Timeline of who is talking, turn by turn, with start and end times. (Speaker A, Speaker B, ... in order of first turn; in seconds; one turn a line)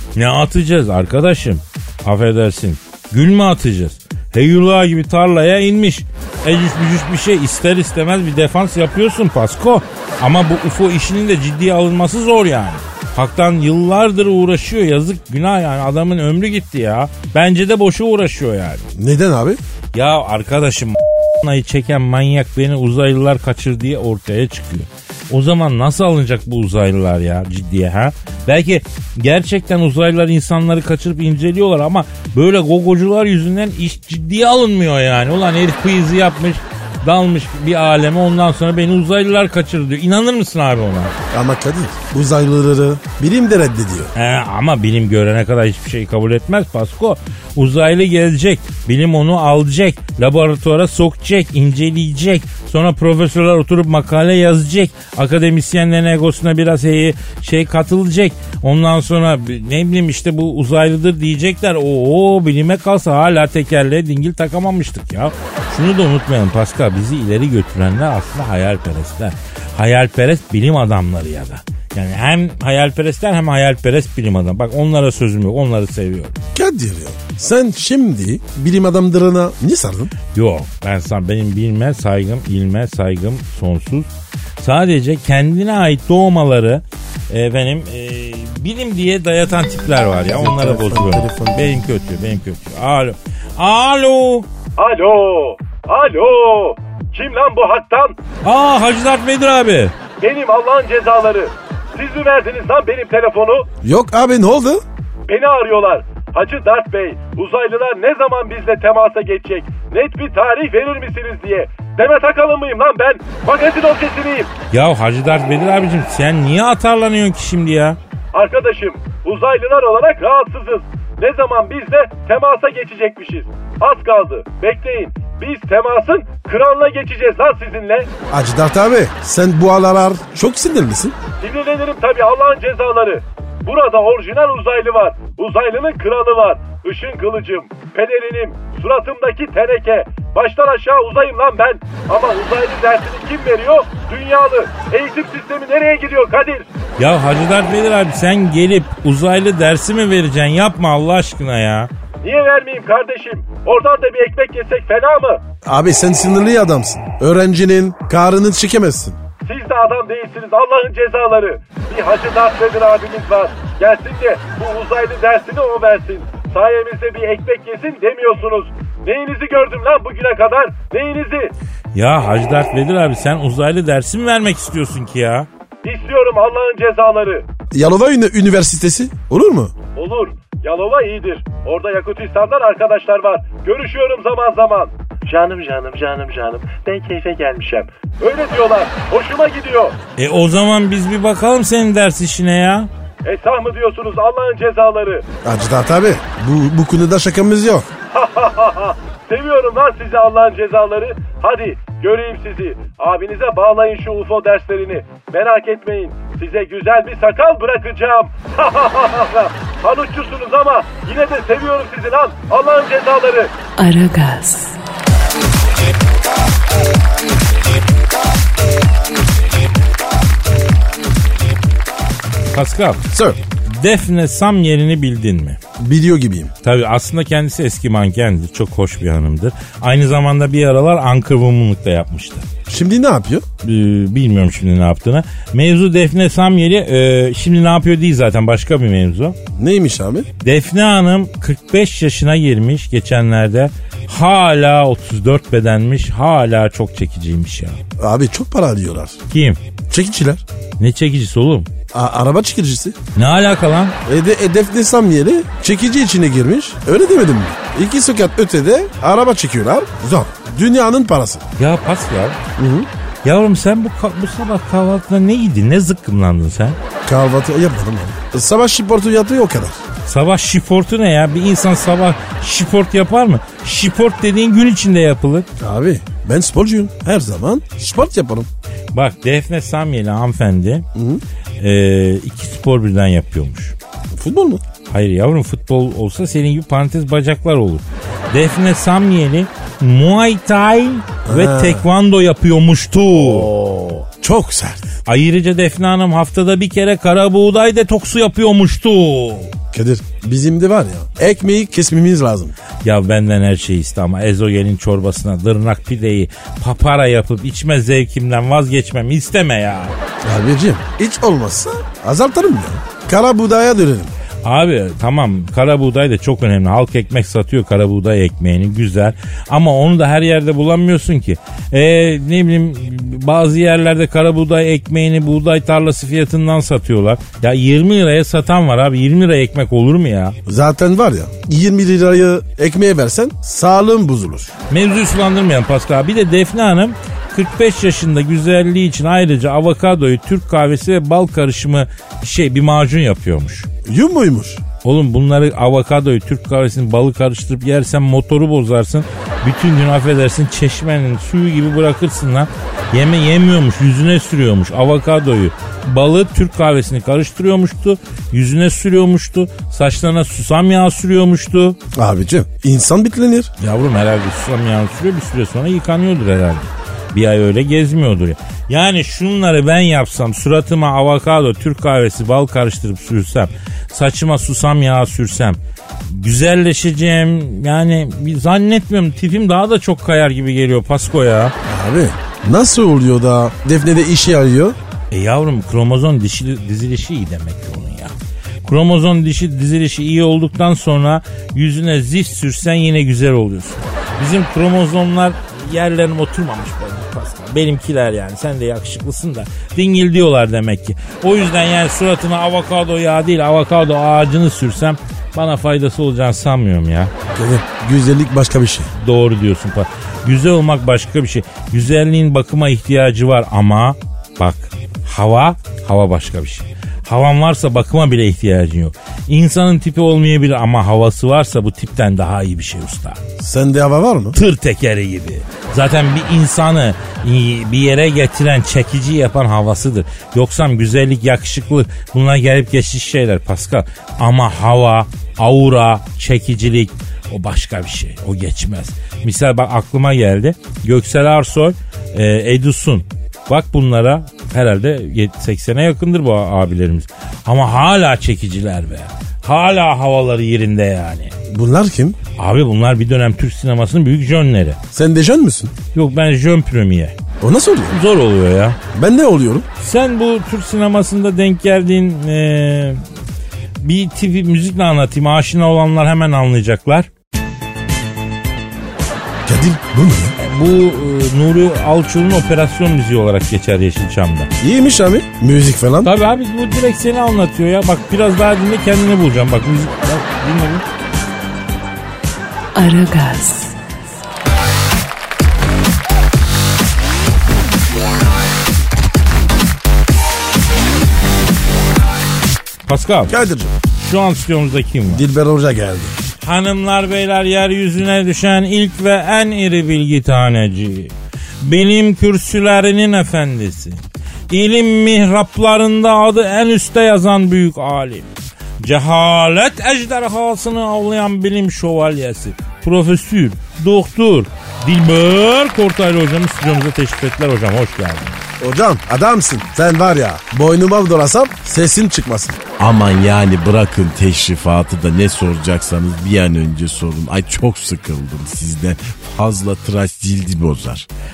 Speaker A: 0.2-18.9
Speaker B: 19.0-19.6
Speaker A: 19.9-41.1
Speaker B: 41.3-44.1
Speaker A: 44.1-76.4
Speaker B: 76.5-80.1
Speaker A: 80.3-84.1
Speaker A: 84.6-94.5
Speaker B: 90.2-91.8
Speaker C: 94.8-98.2
Speaker A: 98.4-99.9
Speaker C: 100.2-103.7
Speaker B: 103.8-104.8
Speaker C: 105.3-114.5
Speaker A: 114.7-118.0
Speaker C: 118.3-128.1
Speaker B: 128.3-131.2
Speaker C: 131.4-146.7
Speaker A: 147.0-151.9
Speaker C: 152.2-155.4
Speaker B: 155.7-159.2
Speaker C: 159.4-171.5
Speaker A: 171.9-175.5
Speaker C: 175.8-177.5
Speaker B: 177.7-179.7
Speaker C: 180.0-190.0
Speaker A: 190.2-192.9
Speaker C: 193.2-195.3
Speaker B: 195.4-197.9
Speaker C: 198.1-213.5
Speaker D: 213.8-214.8
Speaker A: 222.5-223.1
Speaker B: 223.1-223.4
Speaker A: 223.7-225.6
Speaker B: 225.8-226.5
Speaker A: 226.6-232.5
Speaker B: 232.7-233.5
Speaker A: 233.6-239.4
Speaker B: 239.5-240.3
Speaker A: 240.4-247.8
Speaker B: 248.0-249.2
Speaker A: 249.3-249.6
Speaker B: 249.9-250.4
Speaker A: 250.8-251.7
Speaker B: 251.9-253.0
Speaker A: 253.2-254.0
Speaker B: 254.1-261.5
Speaker A: 261.6-262.4
Speaker B: 262.6-262.9
Speaker A: 263.2-266.8
Speaker B: 267.1-269.8
Speaker A: 270.1-275.5
Speaker B: 275.6-278.5
Speaker A: 278.9-280.9
Speaker B: 280.9-281.2
Speaker A: 281.6-283.8
Speaker B: 284.1-284.6
Speaker A: 284.9-293.5
Speaker B: 291.3-291.9
Speaker B: 293.1-294.8
Speaker A: 295.1-299.5
Speaker B: 299.7-302.5
Speaker A: 302.8-309.9
Speaker B: 310.2-314.1
Speaker A: 314.4-330.4
Speaker B: 330.5-334.5
Speaker A: 334.7-343.7
Speaker B: 343.9-344.6
Speaker A: 344.8-361.8
Speaker B: 361.9-363.5
Speaker A: 363.6-381.5
Speaker B: 381.6-384.8
Speaker A: 385.1-407.1
Speaker B: 407.4-408.9
Speaker A: 409.0-423.2
Speaker B: 423.4-424.4
Speaker A: 424.4-451.4
Speaker B: 451.5-452.2
Speaker A: 452.4-454.8
Speaker B: 454.9-455.7
Speaker A: 455.9-457.2
Speaker B: 457.4-458.0
Speaker A: 457.9-458.8
Speaker B: 458.9-459.7
Speaker A: 459.8-463.0
Speaker A: 463.8-467.1
Speaker B: 469.5-470.4
Speaker A: 470.4-474.5
Speaker B: 474.6-476.1
Speaker A: 476.0-480.9
Speaker D: 482.8-483.8
Speaker A: 492.9-493.3
Speaker B: 493.3-493.8
Speaker A: 494.0-495.2
Speaker B: 495.1-496.2
Speaker A: 496.4-518.4
Speaker B: 518.6-522.6
Speaker E: 522.8-531.1